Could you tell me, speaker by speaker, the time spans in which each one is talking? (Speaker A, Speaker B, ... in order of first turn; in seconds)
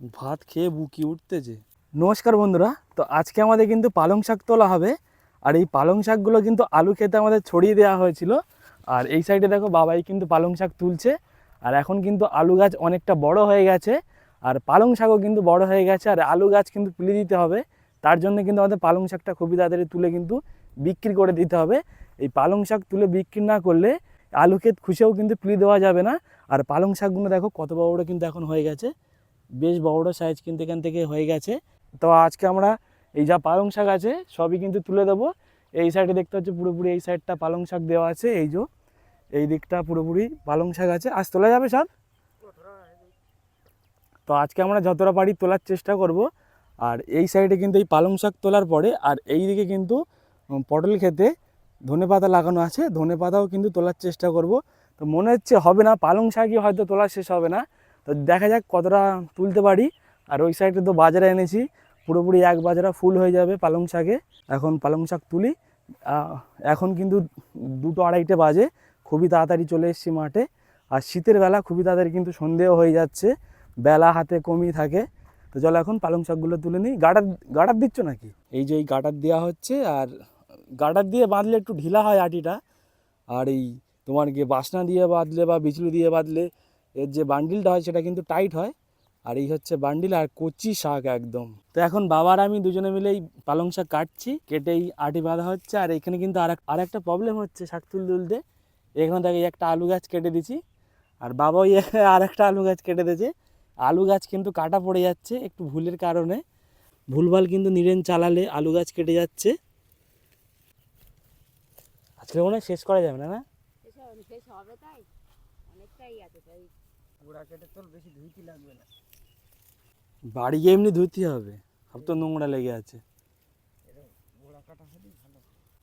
Speaker A: 0.1-4.9, 5.5-8.4, 8.9-11.1, 11.7-13.9, 14.5-28.9, 29.6-38.6, 39.4-41.9, 44.3-46.2, 46.8-50.0, 50.6-51.3, 51.9-65.5, 66.1-67.2, 67.8-70.4, 71.0-73.3, 73.8-80.1, 80.8-82.6, 83.3-86.5, 87.0-88.7, 89.3-98.4, 99.0-100.6, 101.2-103.3, 103.8-106.4, 107.1-109.5, 112.2-113.4, 120.3-123.0
Speaker B: 42.5-43.0, 117.2-118.9, 122.0-122.2, 123.9-125.5
Speaker C: 113.8-115.1, 115.7-116.7